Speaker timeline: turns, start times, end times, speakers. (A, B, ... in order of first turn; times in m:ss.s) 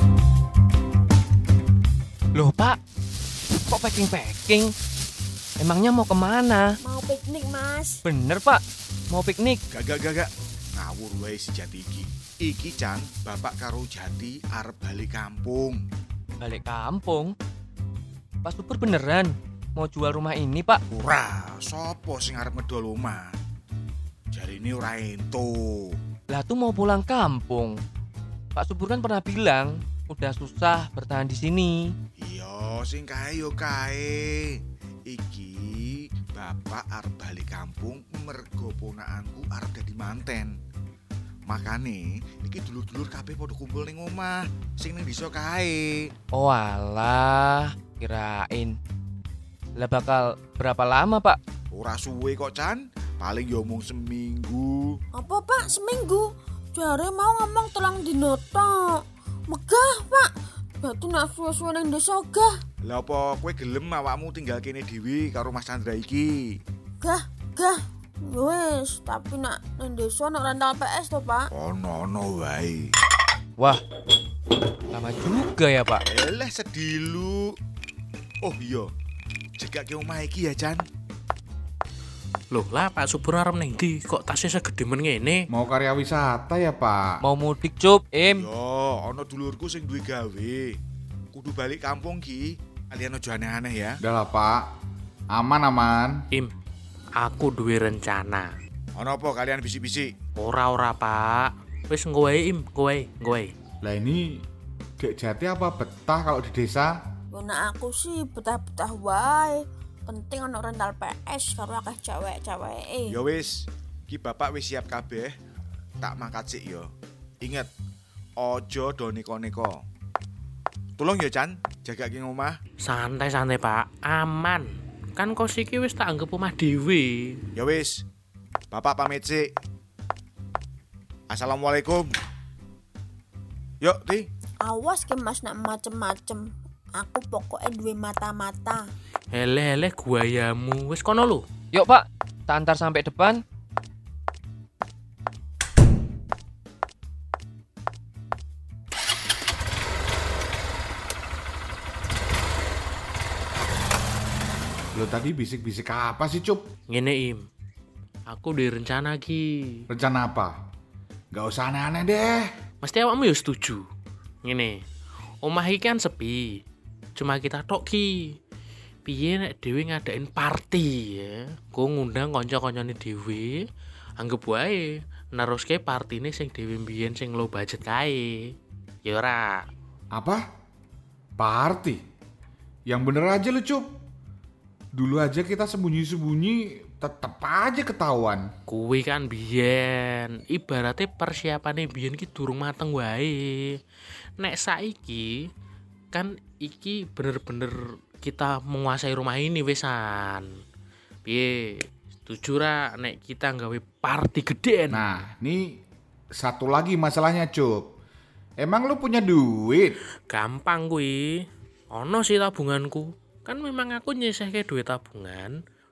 0:02.3-0:02.8 A
0:03.7-0:04.7 A
0:05.6-0:06.6 A
0:06.8-0:08.0 B
0:08.0-0:09.6 A
0:09.7-0:15.8 C
0:16.4-0:17.3 A
0:18.4-0:20.8 A
0:20.9-0:23.3 C
0:24.3-0:26.0 C
0:26.3-0:27.8 A
0:28.5-0:31.9 A
0:32.2-0:40.6 C
0:41.5-0:46.1 C
0:46.3-0:48.7 A
0:49.8-0:51.4 A
0:51.7-0:55.0 C
0:55.1-1:02.5 B
1:02.8-1:06.3 C
1:07.0-1:11.5 B
1:11.5-1:12.9 C
1:14.9-1:16.0 A
1:16.1-1:17.5 C
1:18.4-1:18.9 C
1:19.6-1:20.8 C
1:22.5-1:25.4 D
1:25.5-1:27.1 E
1:27.2-1:28.5 A
1:28.3-1:30.8 C
1:31.3-1:34.0 C
1:34.0-1:34.6 E
1:35.3-1:36.2 E
1:37.2-1:38.5 D
1:38.9-1:40.1 C
1:40.4-1:43.5 D
1:43.8-1:44.4 E
1:45.0-1:46.9 E
1:47.3-1:53.2 B
1:53.1-1:53.5 C
1:54.1-1:55.3 C
1:56.0-1:56.9 C
1:57.4-1:57.7 C
1:58.4-1:59.8 C
2:01.0-2:02.6 C
2:02.8-2:07.4 D
2:07.6-2:08.0 C
2:08.7-2:09.5 C
2:11.3-2:12.0 C
2:13.8-2:14.3 C
2:14.6-2:18.8 B
2:19.3-2:21.4 D
2:21.7-2:23.4 A
2:34.9-2:36.6 E
2:36.9-2:37.4 D
2:38.3-2:39.8 D
2:39.9-2:40.6 E
2:41.3-2:42.5 E
2:42.8-2:43.8 D
2:44.4-2:44.8 D
2:45.4-2:46.5 D
2:47.2-2:48.1 D
2:49.0-2:53.6 D
2:54.2-2:58.5 D
2:59.0-2:59.6 D
3:00.1-3:00.4 E
3:01.4-3:02.0 E
3:02.9-3:03.8 E
3:04.9-3:08.5 E
3:08.7-3:13.8 D
3:14.4-3:15.3 D
3:16.1-3:20.5 D
3:21.2-3:25.0 D
3:24.9-3:25.6 E
3:26.4-3:27.9 E
3:28.6-3:30.0 E
3:30.3-3:31.2 D
3:31.9-3:35.6 D